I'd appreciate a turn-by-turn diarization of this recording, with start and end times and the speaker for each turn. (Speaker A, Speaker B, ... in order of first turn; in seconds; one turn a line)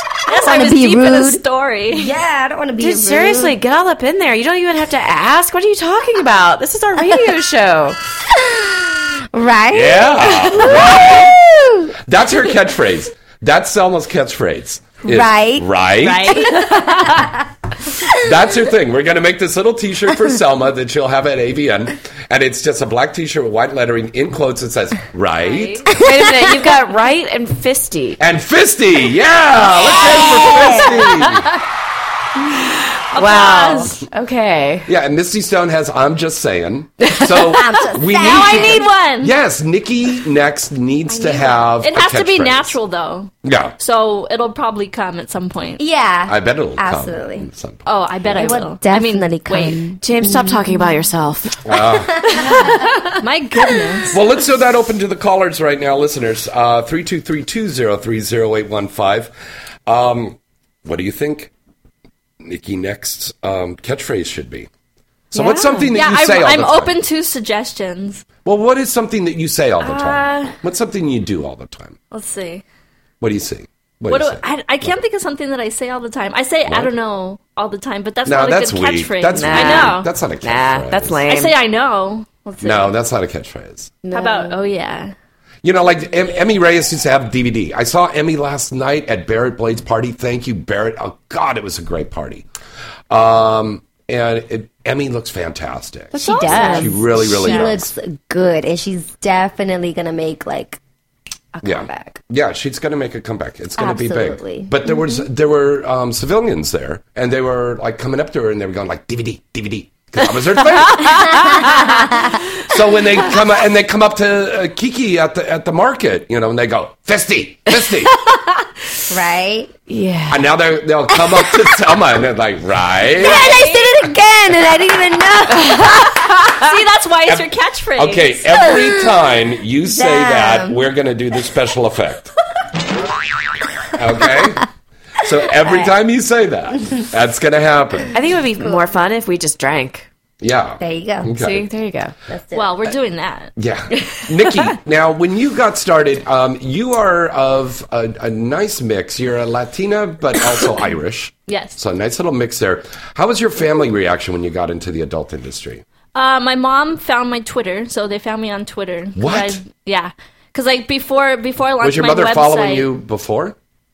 Speaker A: 0.3-2.1
Speaker B: 0.3-3.6
Speaker C: 2.8-8.0
Speaker B: 8.4-11.9
Speaker D: 9.7-11.3
Speaker D: 12.1-16.5
Speaker B: 15.0-15.7
Speaker A: 16.0-17.3
Speaker B: 16.3-17.2
Speaker D: 18.1-25.9
Speaker A: 25.4-25.9
Speaker C: 26.0-28.2
Speaker D: 28.2-31.5
Speaker B: 29.7-31.4
Speaker A: 33.1-34.0
Speaker C: 33.1-34.9
Speaker D: 34.9-42.8
Speaker B: 37.4-38.9
Speaker A: 38.1-39.3
Speaker A: 41.2-45.8
Speaker D: 43.4-43.8
Speaker B: 45.8-47.5
Speaker D: 46.3-47.8
Speaker A: 47.8-49.8
Speaker B: 48.3-50.9
Speaker C: 50.0-51.6
Speaker D: 51.6-52.4
Speaker B: 52.1-52.5
Speaker A: 52.3-54.2
Speaker D: 54.1-59.3
Speaker D: 59.9-61.5
Speaker D: 62.4-64.7
Speaker D: 65.3-67.0
Speaker C: 65.3-65.9
Speaker A: 65.9-68.2
Speaker D: 68.4-72.0
Speaker A: 69.8-70.5
Speaker A: 72.1-72.6
Speaker D: 73.2-74.9
Speaker A: 74.1-80.1
Speaker D: 76.7-76.9
Speaker D: 78.2-81.2
Speaker C: 79.3-81.5
Speaker A: 81.3-82.9
Speaker D: 82.6-83.9
Speaker C: 84.0-84.6
Speaker A: 84.1-85.1
Speaker D: 85.6-92.5
Speaker D: 93.1-97.9
Speaker C: 96.1-97.1
Speaker B: 96.2-100.8
Speaker A: 97.2-97.8
Speaker B: 101.5-102.2
Speaker D: 101.6-111.6
Speaker B: 103.8-105.1
Speaker B: 111.1-112.3
Speaker D: 112.6-118.2
Speaker B: 119.1-119.7
Speaker C: 119.9-120.6
Speaker D: 120.3-123.5
Speaker B: 123.1-126.4
Speaker A: 123.2-124.1
Speaker A: 126.5-128.7
Speaker D: 127.2-132.3
Speaker B: 128.6-129.2
Speaker B: 129.9-130.8
Speaker D: 133.9-138.1
Speaker C: 138.1-140.1
Speaker D: 140.4-141.7
Speaker B: 140.8-141.4
Speaker C: 141.4-142.1
Speaker B: 142.3-142.9
Speaker A: 142.5-143.5
Speaker D: 143.6-155.8
Speaker A: 151.5-151.8
Speaker A: 156.1-162.9
Speaker D: 159.2-159.6
Speaker D: 161.8-163.6